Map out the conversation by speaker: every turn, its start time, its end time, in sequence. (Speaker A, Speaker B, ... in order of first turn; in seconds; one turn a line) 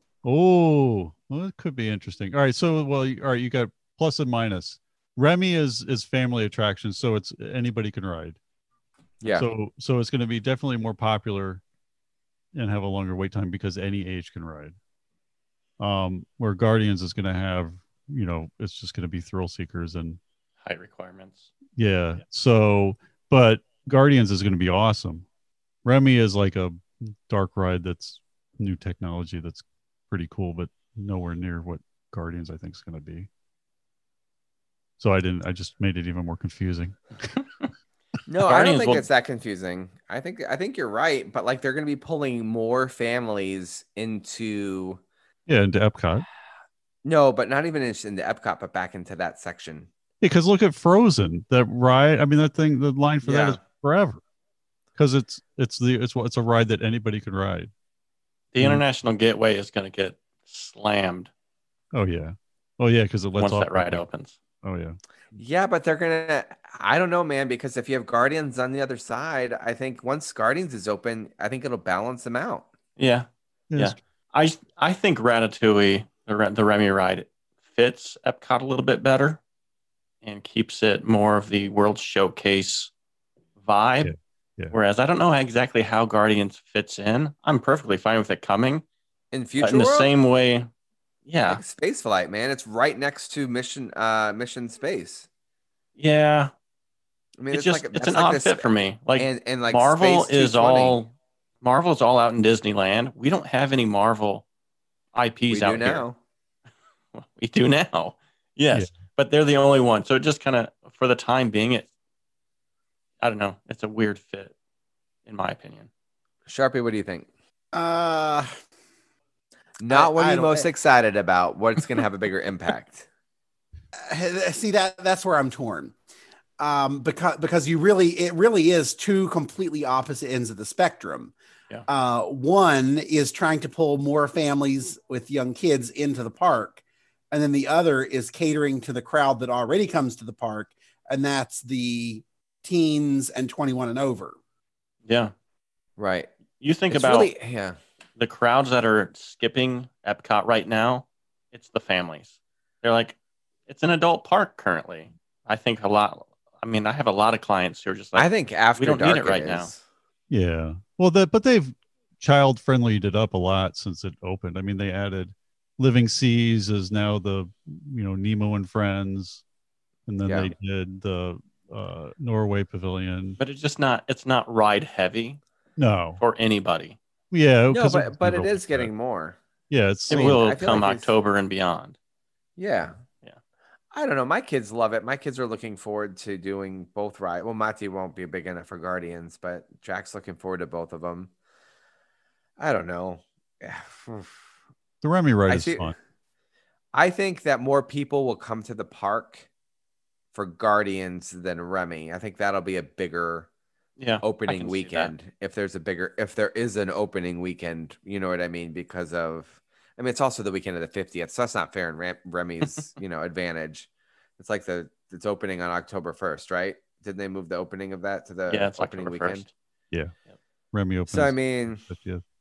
Speaker A: 0.2-8.4
Speaker B: 9.2-9.5
Speaker A: 9.3-11.6
Speaker A: 12.5-14.8
Speaker A: 15.8-20.2
Speaker C: 20.6-21.5
Speaker A: 21.8-25.2
Speaker A: 25.9-33.3
Speaker A: 35.0-37.0
Speaker C: 37.4-37.7
Speaker B: 38.3-45.0
Speaker C: 38.5-39.0
Speaker A: 45.5-46.3
Speaker B: 47.0-49.9
Speaker A: 50.2-54.2
Speaker B: 53.2-53.6
Speaker A: 55.0-57.7
Speaker C: 58.5-61.3
Speaker A: 61.9-64.0
Speaker C: 63.4-64.4
Speaker A: 64.6-65.0
Speaker B: 65.4-72.7
Speaker C: 73.0-79.4
Speaker A: 73.7-74.0
Speaker C: 80.2-82.9
Speaker C: 83.6-84.1
Speaker A: 84.0-84.7
Speaker C: 84.7-88.8
Speaker B: 89.3-90.1
Speaker C: 89.6-90.7
Speaker C: 91.3-91.6
Speaker B: 91.5-95.3
Speaker C: 96.0-96.5
Speaker B: 97.4-101.0
Speaker C: 97.5-104.5
Speaker C: 105.1-106.0
Speaker B: 105.5-106.2
Speaker C: 107.1-111.9
Speaker C: 113.2-114.5
Speaker C: 115.3-115.9
Speaker B: 116.5-117.3
Speaker D: 117.7-118.5
Speaker B: 119.8-123.1
Speaker D: 119.9-120.7
Speaker D: 124.1-125.9
Speaker D: 126.6-131.3
Speaker D: 131.9-136.8
Speaker D: 137.3-144.4
Speaker C: 145.1-145.3
Speaker B: 146.0-146.3
Speaker C: 146.6-147.3
Speaker B: 146.9-147.8
Speaker C: 148.2-159.7
Speaker B: 158.2-159.8
Speaker A: 160.3-169.4
Speaker A: 170.1-173.4
Speaker B: 170.3-170.5
Speaker C: 173.4-175.4
Speaker A: 175.8-176.2
Speaker C: 176.2-177.0
Speaker A: 177.3-178.9
Speaker B: 177.7-179.4
Speaker A: 179.7-180.8
Speaker B: 180.1-181.1
Speaker C: 180.1-182.0
Speaker B: 182.6-183.0
Speaker B: 183.9-191.3
Speaker B: 192.6-194.4
Speaker A: 195.0-195.9
Speaker B: 195.5-195.9
Speaker B: 196.9-199.5
Speaker B: 200.3-203.5
Speaker C: 204.0-205.1
Speaker B: 204.2-219.4
Speaker C: 218.5-219.5
Speaker A: 220.7-222.2
Speaker B: 221.1-221.8